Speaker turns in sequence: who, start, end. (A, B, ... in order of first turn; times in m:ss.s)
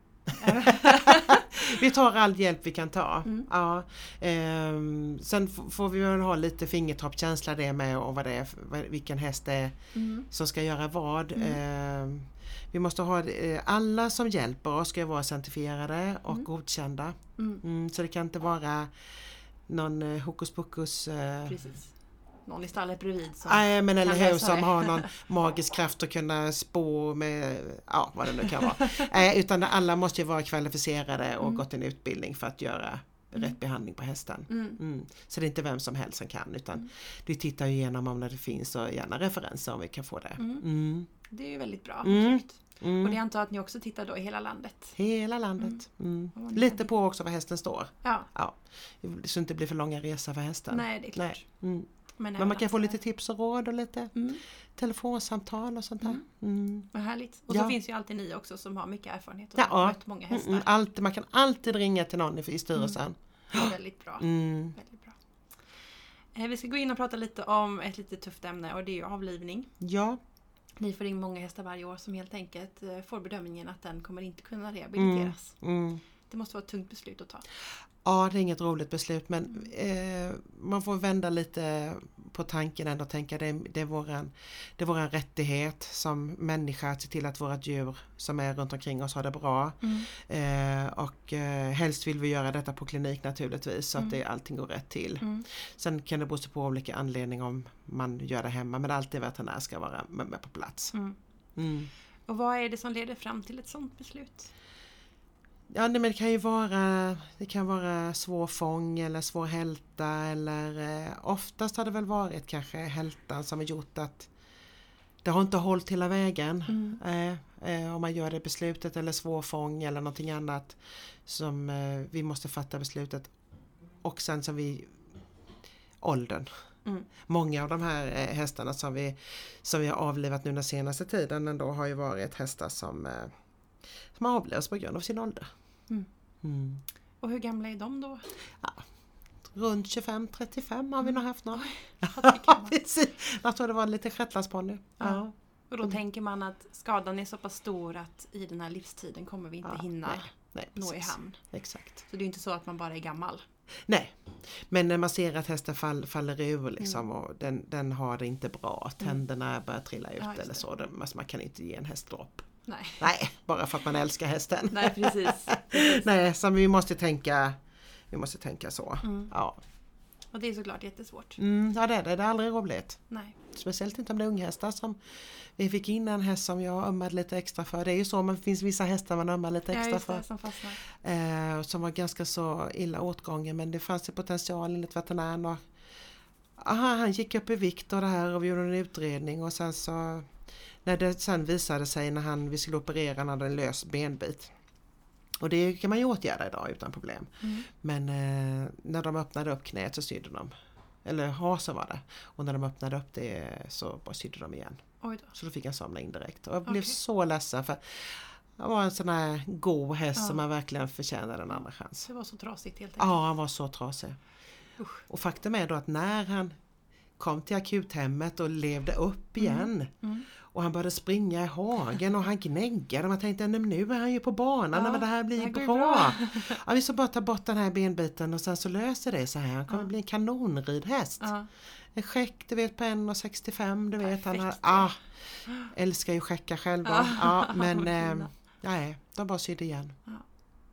0:00.3-0:09.8 A
0:00.3-0:01.8 B
0:10.0-0:10.3 B
0:10.3-0:18.9 A
0:11.4-0:11.6 B
0:17.4-0:17.6 B
0:19.7-0:21.6 A
0:21.5-0:21.9 B
0:22.5-0:25.1 B
0:23.4-0:41.1 A
0:28.4-0:29.1 B
0:34.5-0:34.8 B
0:40.4-0:40.7 B
0:41.2-0:45.0 B
0:42.0-0:43.2 A
0:45.0-0:54.1 A
0:46.4-0:46.9 B
0:48.0-0:48.3 B
0:50.7-0:51.4 B
0:52.2-0:53.0 B
0:54.2-0:54.4 B
0:54.8-0:56.9 A
0:56.9-1:00.7 B
0:57.5-0:57.8 A
0:59.6-1:04.8 A
1:03.5-1:05.2 B
1:06.4-1:09.7 B
1:09.8-1:10.2 A
1:10.8-1:15.6 B
1:15.0-1:16.0 A
1:16.3-1:17.4 B
1:18.0-1:41.0 A
1:29.8-1:30.1 B
1:41.6-1:41.9 A
1:42.3-1:44.5 B
1:45.7-1:54.3 A
1:55.2-2:03.3 A
1:56.7-1:57.0 B
2:04.0-2:05.0 A
2:06.0-2:06.5 A
2:07.3-2:13.3 A
2:14.2-2:15.5 A
2:16.4-2:16.8 A
2:17.2-2:18.3 B
2:19.4-2:25.9 A
2:21.0-2:22.8 B
2:25.0-2:31.4 B
2:29.6-2:32.0 A
2:32.1-2:33.4 B
2:33.9-2:42.5 A
2:40.2-2:40.6 B
2:42.7-2:43.1 B
2:43.0-2:47.6 A
2:44.7-2:46.1 B
2:48.1-2:49.6 A
2:49.0-2:49.3 B
2:50.3-2:51.4 B
2:51.4-2:55.0 A
2:53.1-2:53.4 B
2:55.6-3:00.2 A
2:59.7-3:00.8 B
3:00.9-3:05.6 A
3:06.6-3:10.3 A
3:10.8-3:14.5 A
3:15.4-3:20.5 A
3:17.4-3:17.7 B
3:21.0-3:24.8 A
3:25.0-3:25.3 B
3:25.3-3:32.1 A
3:26.7-3:27.0 B
3:32.0-3:33.2 B
3:33.0-3:34.2 A
3:35.1-3:36.5 A
3:37.2-3:39.9 A
3:39.4-3:40.3 B
3:40.5-3:51.3 A
3:44.7-3:46.6 B
3:51.2-3:51.5 B
3:51.9-3:55.0 A
3:54.0-3:54.9 B
3:55.7-4:00.0 A
3:56.8-3:58.3 B